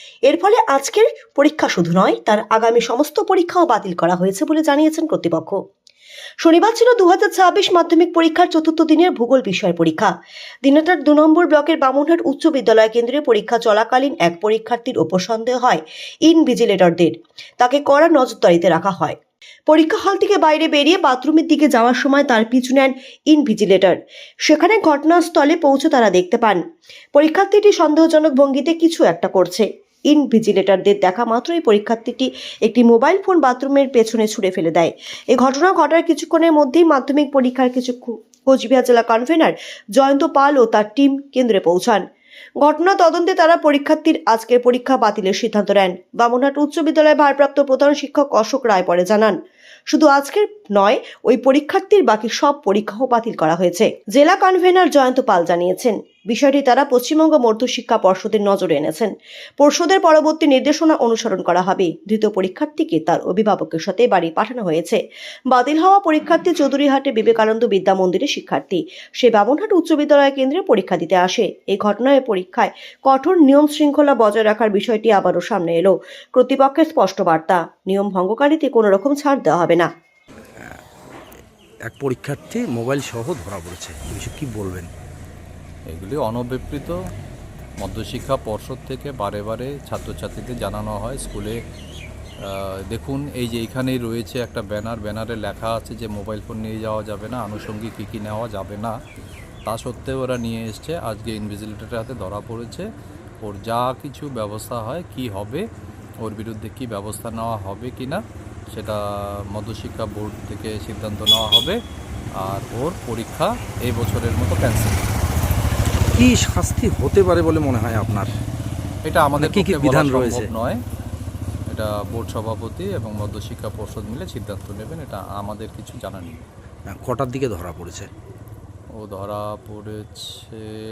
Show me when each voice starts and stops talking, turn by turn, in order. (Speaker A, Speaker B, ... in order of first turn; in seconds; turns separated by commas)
Speaker A: 0.2-5.6, Speaker A: 6.4-10.1, Speaker A: 10.6-26.6, Speaker A: 27.1-42.0, Speaker A: 42.6-49.4, Speaker A: 49.9-79.9, Speaker B: 81.9-84.9, Speaker C: 85.9-86.9, Speaker C: 87.8-91.6, Speaker C: 92.5-99.0, Speaker C: 99.7-102.9, Speaker C: 103.4-105.6, Speaker C: 106.2-108.2, Speaker C: 108.7-109.0, Speaker C: 109.5-111.8, Speaker C: 112.4-115.1, Speaker B: 116.1-118.3, Speaker C: 119.0-120.8, Speaker B: 119.3-120.5, Speaker C: 121.7-126.4, Speaker B: 126.9-128.1, Speaker C: 129.0-130.7